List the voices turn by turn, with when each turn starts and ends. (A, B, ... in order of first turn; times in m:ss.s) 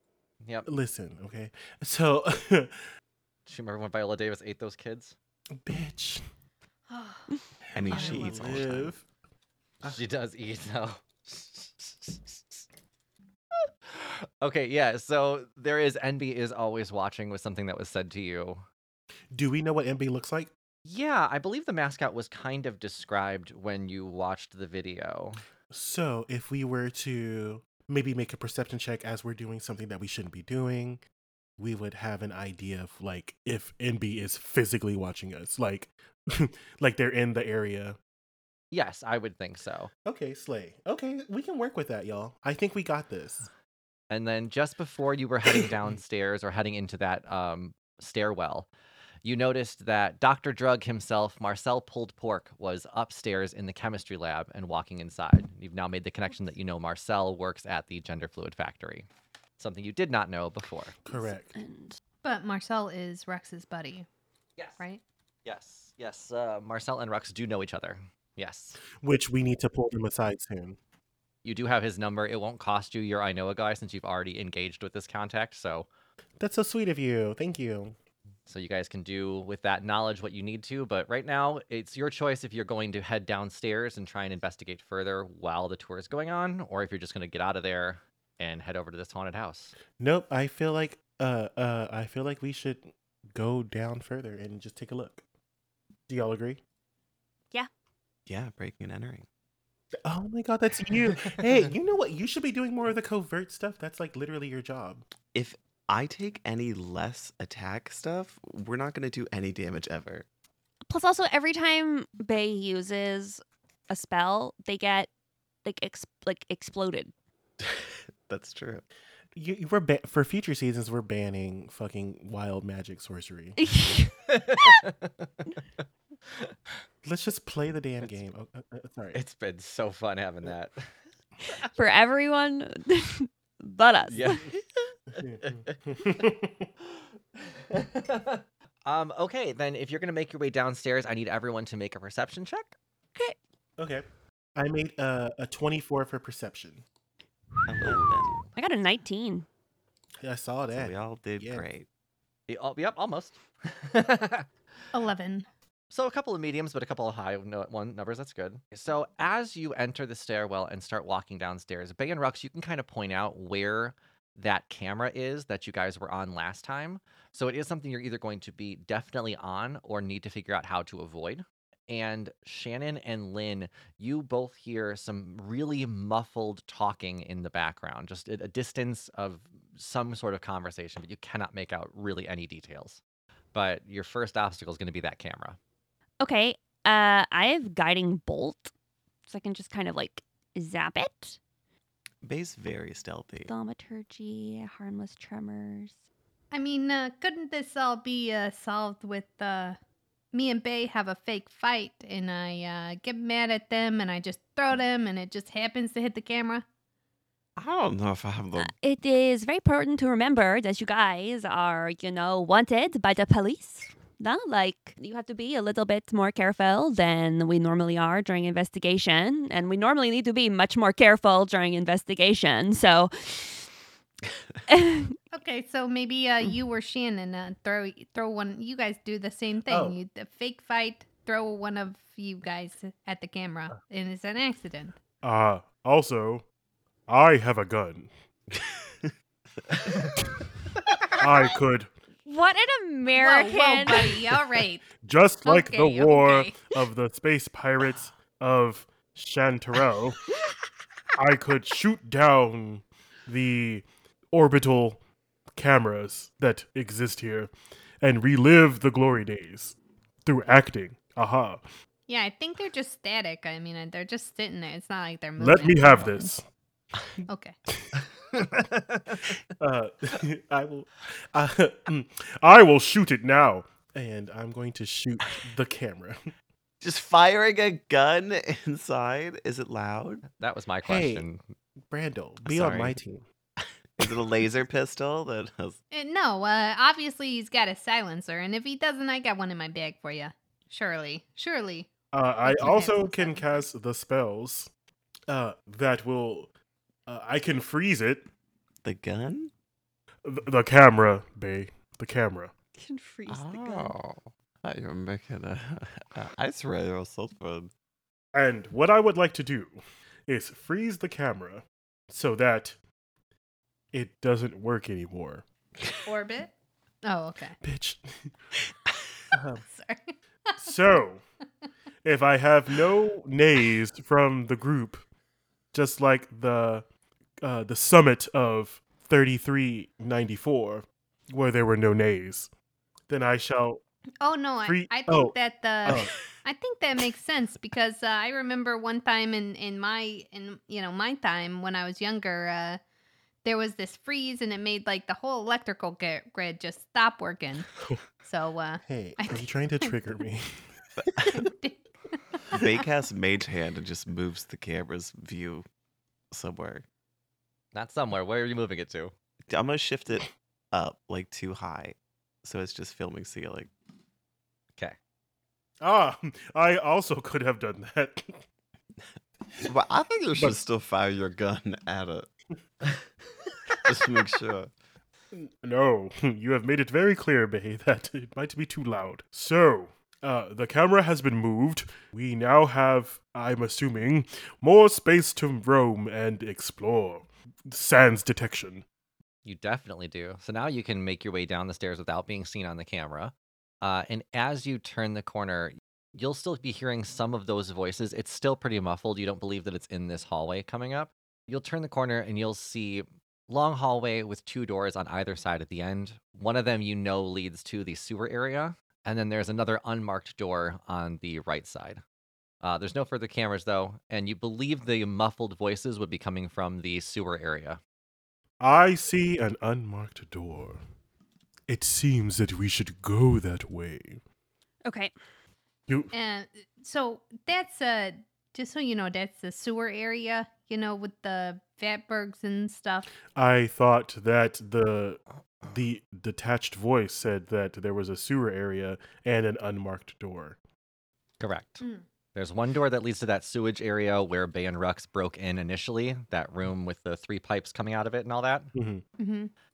0:00.7-0:02.9 A
0:03.5-0:05.2 B
0:05.6-0:06.2 A
0:06.9-0:07.3 C
0:07.7-0:09.0 D
0:07.8-0:09.0 A
0:07.9-0:08.6 C
0:09.8-0:12.7 B
0:13.6-0:18.6 B
0:19.3-0:20.5 A
0:20.8-0:25.4 B
0:25.7-0:31.0 A
0:31.6-0:38.0 A
0:38.7-0:39.9 B
0:40.0-0:43.5 A
0:44.1-0:48.7 B
0:49.2-0:59.1 B
0:59.6-1:01.0 B
1:01.0-1:01.5 A
1:01.1-1:02.0 E
1:02.2-1:04.1 C
1:05.4-1:08.8 B
1:09.0-1:10.8 A
1:11.4-1:15.9 B
1:16.4-1:18.0 A
1:18.5-1:29.8 B
1:30.0-1:35.2 A
1:36.1-1:36.6 A
1:38.3-1:39.3 D
1:40.0-1:45.0 A
1:45.3-1:50.3 D
1:50.9-1:55.1 E
1:55.6-1:57.1 E
1:57.6-1:58.8 D
1:59.4-2:03.6 A
2:03.6-2:04.8 E
2:04.3-2:05.3 B
2:07.0-2:09.2 A
2:09.1-2:10.9 B
2:11.7-2:14.5 E
2:14.1-2:14.6 B
2:15.2-2:16.7 A
2:15.4-2:15.8 B
2:17.4-2:22.8 B
2:23.8-2:26.8 A
2:27.7-2:28.5 D
2:28.6-2:29.5 E
2:30.2-2:31.7 A
2:30.7-2:31.9 D
2:32.5-2:34.5 B
2:34.9-2:35.5 C
2:35.9-3:03.0 B
3:03.5-3:05.6 B
3:06.2-3:08.7 E
3:09.3-3:11.4 E
3:12.2-3:13.5 D
3:13.5-3:16.0 E
3:16.5-3:19.8 C
3:20.3-3:26.7 C
3:27.6-3:28.7 D
3:28.6-3:43.7 E
3:44.7-3:45.2 E
3:45.3-3:55.0 C
3:49.7-3:50.0 A
3:55.2-3:56.4 A
3:57.1-3:58.1 A
3:58.6-3:59.1 D
4:01.2-4:01.9 A
4:02.3-4:04.3 E
4:03.1-4:04.9 C
4:05.0-4:10.2 A
4:05.4-4:06.6 C
4:11.2-4:15.0 A
4:15.6-4:21.6 A
4:22.1-4:26.3 C
4:25.4-4:26.4 A
4:27.3-4:27.6 C
4:29.2-4:36.2 A
4:36.8-4:40.2 D
4:40.3-4:41.4 B
4:40.8-4:41.3 A
4:41.9-4:43.2 A
4:42.5-4:43.0 B
4:44.0-4:45.8 D
4:45.9-4:51.9 C
4:52.1-4:54.7 A
4:52.5-4:53.4 C
4:55.3-4:56.5 A
4:57.1-4:58.3 A
4:58.8-4:59.5 D
5:00.2-5:02.5 A
5:02.8-5:04.0 E
5:03.3-5:07.7 D
5:08.3-5:12.8 A
5:13.9-5:15.4 A
5:16.0-5:16.5 C
5:17.0-5:17.6 C
5:17.6-5:18.3 A
5:19.3-5:19.6 A
5:19.6-5:20.7 C
5:20.6-5:21.2 A
5:22.0-5:25.0 A
5:25.7-5:26.8 A
5:27.4-5:32.5 A
5:33.1-5:33.8 A
5:34.2-5:42.8 C
5:34.6-5:36.1 A
5:43.4-5:47.7 C
5:48.2-5:49.9 C
5:48.9-5:50.6 A
5:51.0-5:51.2 D
5:51.3-5:52.7 C
5:52.5-5:55.7 D
5:56.3-5:56.8 D
5:57.7-5:59.1 B
5:59.5-6:03.7 D
6:05.8-6:08.4 A
6:09.6-6:12.3 D
6:13.8-6:14.7 D
6:15.3-6:28.8 A
6:29.4-6:52.0 B
6:52.6-6:57.8 B
6:58.6-7:00.8 A
7:01.7-7:04.2 A
7:04.8-7:05.1 E
7:05.9-7:06.1 A
7:06.1-7:13.1 C
7:13.4-7:20.6 A
7:21.4-7:21.8 B
7:22.4-7:28.7 B
7:28.7-7:29.0 A
7:29.2-7:29.5 C